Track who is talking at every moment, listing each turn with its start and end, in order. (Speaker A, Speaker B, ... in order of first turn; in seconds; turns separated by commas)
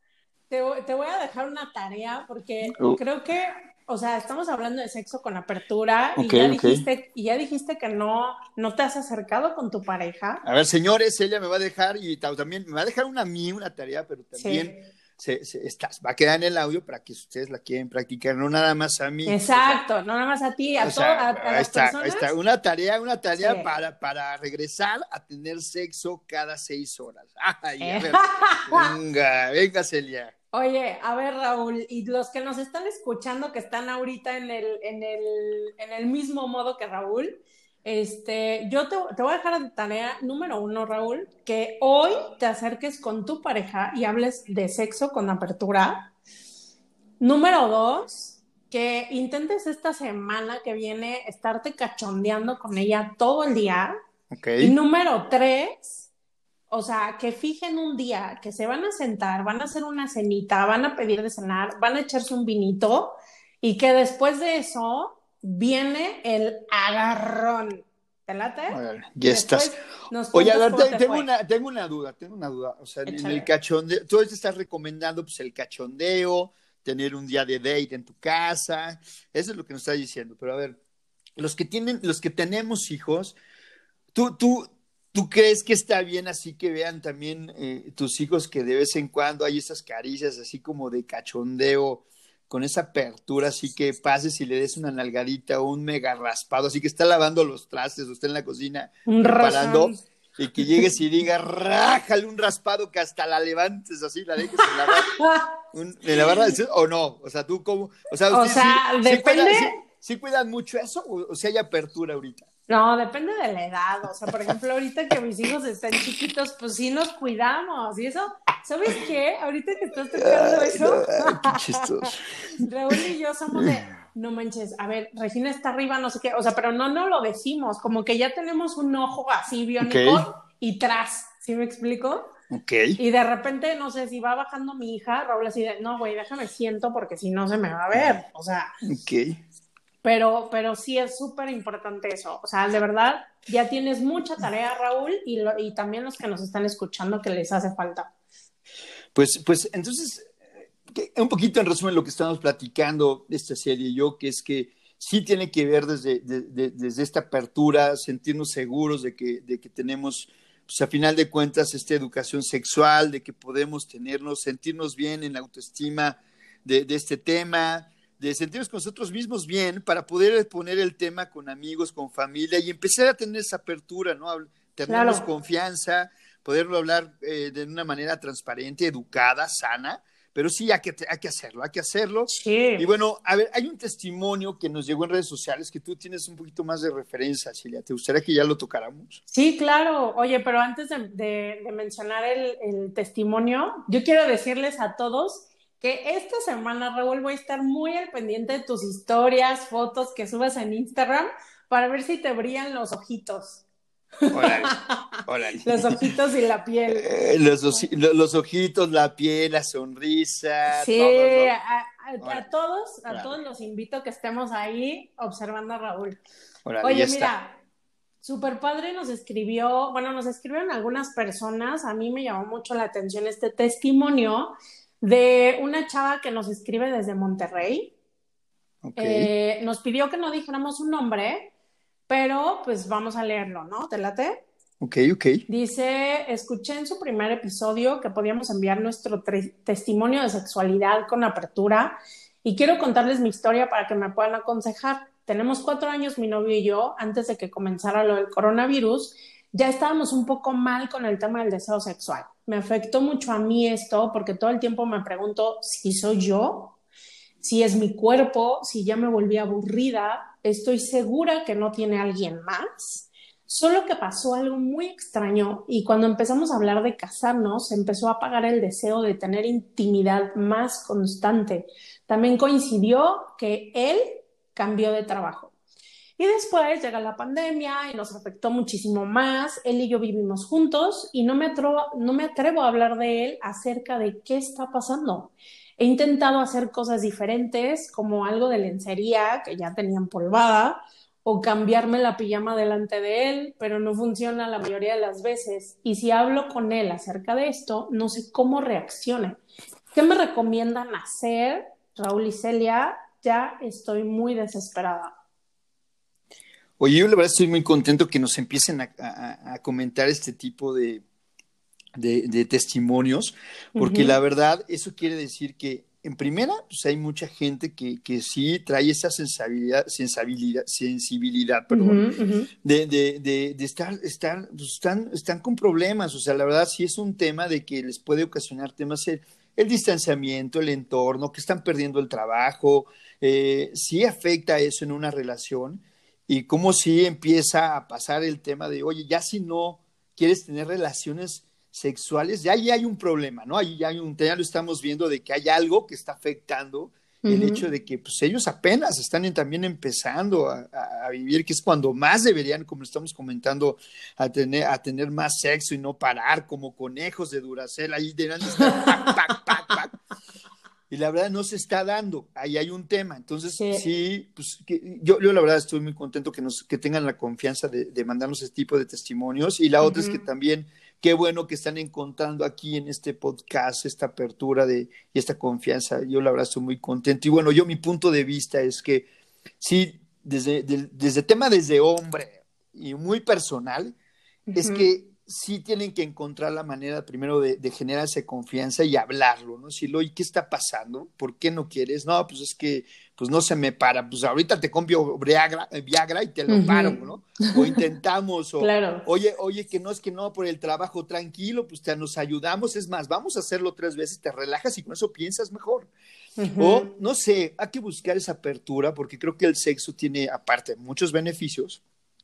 Speaker A: 0.5-10.4, Speaker B: 6.2-6.8, Speaker B: 10.4-19.8, Speaker A: 14.4-14.8, Speaker A: 19.2-22.3, Speaker B: 20.8-30.3, Speaker A: 23.4-23.7, Speaker A: 27.8-28.9, Speaker A: 30.5-46.1, Speaker A: 47.2-53.9, Speaker B: 54.3-54.7, Speaker A: 54.6-56.1, Speaker A: 56.7-71.3, Speaker B: 68.7-69.7, Speaker B: 70.3-80.8, Speaker A: 73.0-73.5, Speaker B: 81.4-83.4, Speaker B: 84.1-105.1, Speaker A: 99.0-100.0, Speaker A: 104.7-105.5, Speaker B: 105.7-112.5, Speaker A: 106.2-106.5, Speaker A: 108.3-109.7, Speaker A: 112.7-121.8, Speaker B: 120.1-122.2, Speaker A: 122.6-132.3, Speaker B: 129.8-130.3, Speaker B: 132.5-133.0, Speaker A: 133.0-138.7, Speaker B: 138.8-139.4, Speaker A: 140.0-148.1, Speaker B: 149.1-189.2, Speaker A: 174.9-175.2, Speaker A: 182.3-182.8, Speaker A: 189.3-203.6, Speaker A: 204.3-207.1, Speaker B: 204.3-206.0, Speaker B: 206.9-211.5, Speaker A: 210.7-216.2, Speaker B: 212.2-212.5, Speaker B: 213.1-213.4, Speaker B: 216.6-217.3, Speaker A: 216.8-217.6, Speaker A: 218.2-227.9, Speaker B: 228.8-229.3, Speaker A: 229.0-231.5, Speaker A: 232.1-234.4, Speaker B: 234.8-235.4, Speaker A: 235.5-256.8, Speaker A: 257.4-275.5, Speaker A: 276.2-299.4, Speaker A: 299.9-305.1, Speaker B: 306.8-311.0, Speaker B: 311.9-322.0, Speaker A: 313.8-314.1, Speaker A: 321.7-322.5, Speaker B: 322.6-360.0, Speaker A: 347.2-347.6, Speaker A: 358.6-359.1, Speaker B: 360.9-379.1, Speaker A: 363.6-363.8, Speaker A: 369.8-370.2, Speaker B: 379.6-383.9, Speaker A: 384.5-384.9, Speaker B: 384.5-405.9, Speaker A: 396.5-397.0, Speaker A: 398.6-399.0, Speaker A: 406.4-406.9, Speaker B: 406.6-411.8